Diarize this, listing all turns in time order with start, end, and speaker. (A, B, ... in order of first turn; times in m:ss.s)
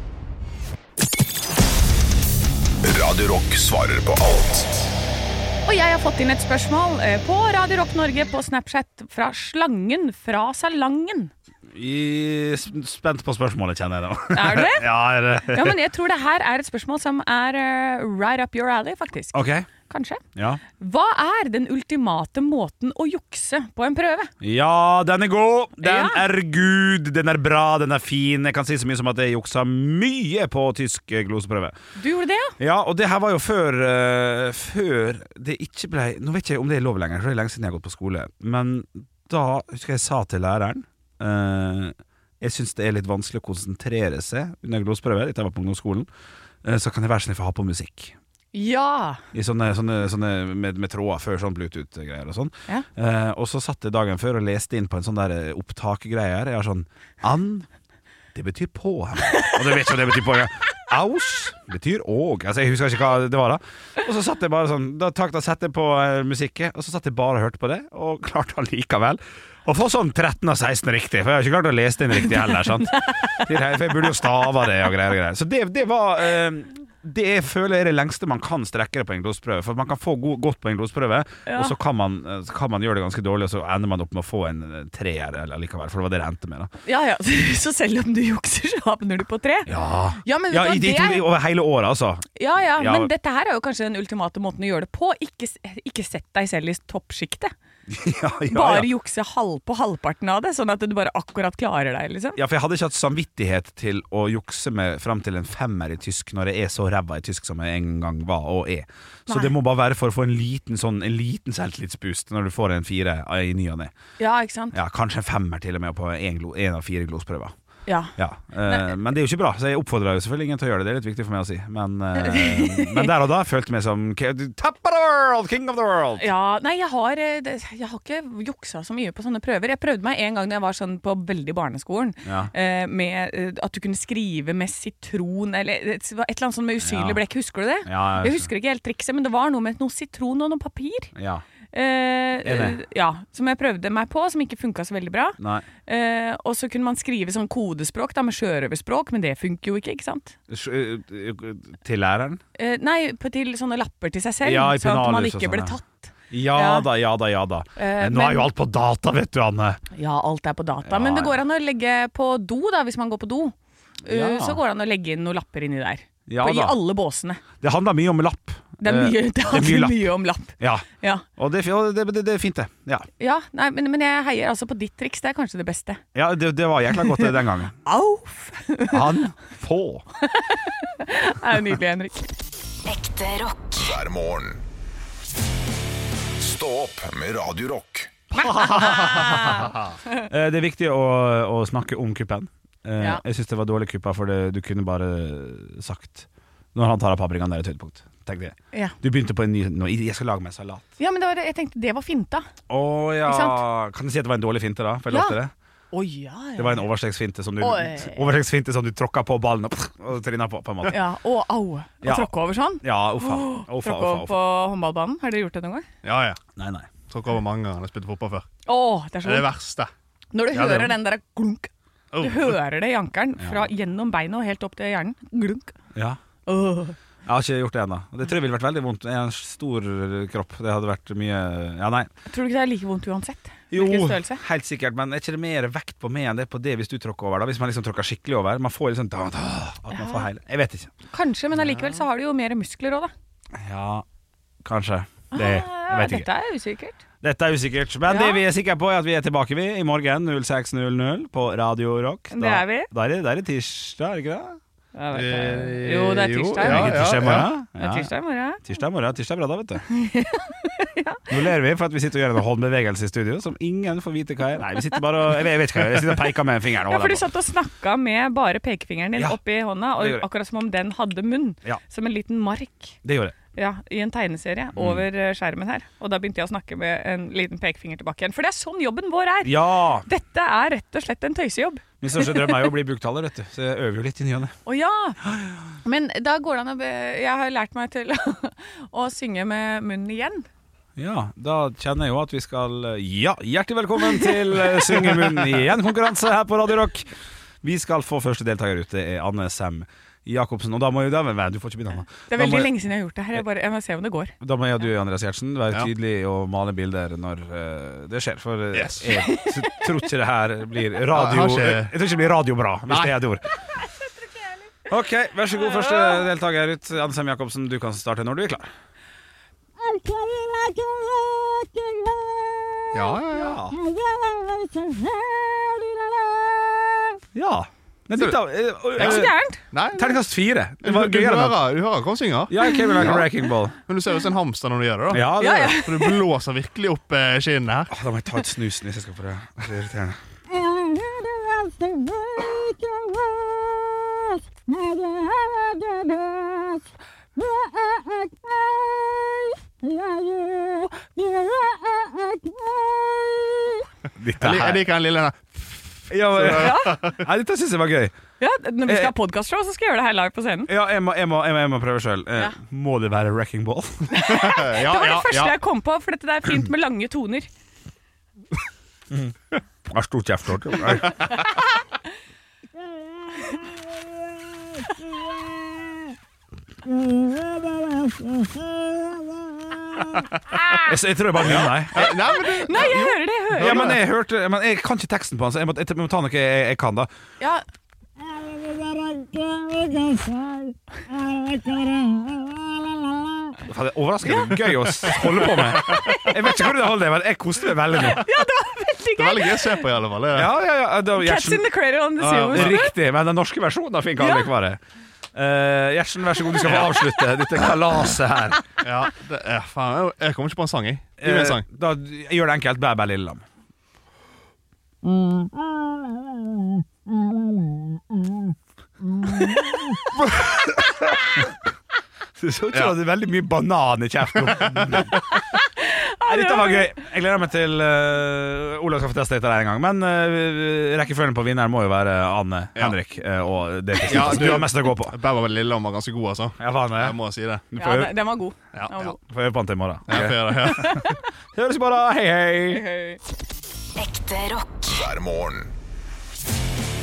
0:02.8-0:04.9 A
0:05.6-0:11.3 B
0:11.7-0:15.8 C
0:14.3-0:14.9 B
0:15.4-0:20.2 B
0:19.3-0:19.7 C
0:20.3-0:20.6 C
0:20.8-0:24.3 B
0:24.4-0:31.8 C
0:25.8-0:26.2 B
0:32.0-0:32.6 B
0:32.6-0:46.1 C
0:46.6-0:48.1 C
0:48.5-0:49.2 B
0:49.3-0:57.7 C
0:58.3-1:26.7 C
1:12.9-1:13.2 B
1:21.4-1:21.8 B
1:26.8-1:31.3 B
1:29.6-1:33.1 C
1:32.4-1:37.5 B
1:37.9-1:38.9 C
1:38.5-1:42.4 B
1:42.4-1:53.9 C
1:49.3-1:49.5 B
1:54.2-1:54.8 B
1:54.7-1:57.5 C
1:57.9-1:58.9 B
1:58.2-2:06.3 C
2:02.1-2:03.1 B
2:06.2-2:21.1 B
2:12.2-2:12.5 C
2:16.8-2:17.2 C
2:17.8-2:18.5 C
2:21.1-2:21.4 C
2:21.7-2:30.4 B
2:22.4-2:22.8 C
2:25.4-2:25.7 C
2:30.5-2:32.4 C
2:32.6-2:36.9 B
2:34.4-2:35.8 C
2:36.3-2:39.8 C
2:37.8-2:38.5 B
2:39.9-2:47.4 B
2:40.8-2:41.4 C
2:44.1-2:44.6 C
2:46.3-2:46.8 C
2:47.6-2:50.8 C
2:48.8-2:51.2 B
2:51.4-2:53.1 C
2:53.2-2:56.0 B
2:56.1-2:57.8 C
2:57.8-2:59.2 B
2:58.9-3:00.0 C
3:00.2-3:02.3 B
3:02.8-3:04.0 D
3:03.8-3:04.6 A
3:06.4-3:08.2 A
3:08.3-3:20.8 C
3:08.4-3:09.8 B
3:21.0-3:22.5 B
3:22.7-3:25.5 C
3:23.2-3:23.6 B
3:25.1-3:25.4 B
3:25.9-3:26.9 B
3:26.6-3:31.0 C
3:27.6-3:28.3 B
3:30.9-3:35.9 B
3:32.0-3:34.3 C
3:36.0-3:36.4 E
3:36.6-3:36.9 C
3:37.1-3:38.5 E
3:38.6-3:39.5 B
3:39.2-3:39.9 E
3:40.3-3:41.7 B
3:40.5-3:40.9 E
3:42.1-3:42.6 E
3:42.2-3:45.7 B
3:43.4-3:43.6 C
3:46.4-3:47.0 B
3:47.2-3:52.1 C
3:52.3-3:54.4 B
3:53.7-4:00.9 C
3:59.9-4:00.2 B
4:01.1-4:03.1 B
4:01.6-4:02.0 C
4:03.5-4:04.0 C
4:04.6-4:06.3 C
4:05.3-4:07.0 B
4:07.2-4:14.6 C
4:08.0-4:08.4 B
4:12.3-4:12.9 B
4:14.9-4:18.6 B
4:15.1-4:17.5 E
4:16.5-4:18.1 C
4:18.6-4:19.8 C
4:19.9-4:21.4 B
4:21.3-4:27.3 C
4:24.7-4:25.0 B
4:26.9-4:33.0 B
4:30.0-4:30.2 C
4:33.0-4:33.4 C
4:33.5-4:42.7 B
4:34.8-4:35.0 C
4:39.4-4:40.0 C
4:42.0-4:44.5 C
4:44.6-4:45.2 B
4:45.2-4:45.6 C
4:45.8-4:50.5 B
4:51.0-4:57.1 C
4:57.6-5:02.7 C
5:02.3-5:04.3 B
5:04.4-5:13.4 C
5:08.7-5:09.1 E
5:09.1-5:09.9 B
5:11.1-5:11.9 E
5:14.9-5:18.7 C
5:22.9-5:23.6 E
5:23.2-5:23.8 C
5:27.3-5:29.3 C
5:28.9-5:30.2 E
5:29.0-5:29.6 B
5:29.9-5:31.6 C
5:30.8-5:33.3 E
5:32.5-5:33.8 C
5:33.9-5:37.9 E
5:35.1-5:35.8 C
5:35.3-5:36.2 B
5:37.9-5:40.2 C
5:54.2-5:54.8 C
5:54.3-5:57.2 E
5:56.1-5:58.2 C
5:56.5-5:57.0 B
5:58.4-6:00.7 B
5:58.8-5:59.1 C
6:00.7-6:04.3 C
6:04.1-6:07.5 B
6:04.2-6:05.5 E
6:09.1-6:11.4 C
6:19.9-6:20.6 E
6:20.6-6:20.9 B
6:20.8-6:22.2 C
6:21.4-6:24.0 E
6:22.0-6:24.0 B
6:23.5-6:27.1 C
6:28.8-6:30.4 E
6:31.4-6:32.1 E
6:33.6-6:38.2 C
6:35.3-6:36.0 E
6:35.9-6:36.3 B
6:38.0-6:39.9 B
6:39.2-6:40.5 E
6:40.3-6:41.6 C
6:41.1-6:43.0 B
6:42.2-6:42.8 E
6:42.5-6:44.8 C
6:44.2-6:44.5 B
6:45.3-6:48.6 C
6:46.6-6:47.0 E
6:48.8-6:51.6 E
6:51.2-6:53.4 C
6:55.1-6:55.4 E
6:59.3-6:59.5 C
7:00.1-7:01.5 C
7:02.4-7:05.2 C
7:04.6-7:05.0 E
7:05.2-7:06.9 B
7:06.2-7:15.2 C
7:14.0-7:17.6 E
7:16.6-7:17.2 C
7:17.7-7:18.1 C
7:17.8-7:19.2 B
7:18.7-7:19.1 E
7:19.2-7:22.8 C
7:20.1-7:21.2 E
7:20.8-7:21.2 B
7:22.7-7:23.2 B
7:24.0-7:25.0 D
7:24.9-7:25.7 A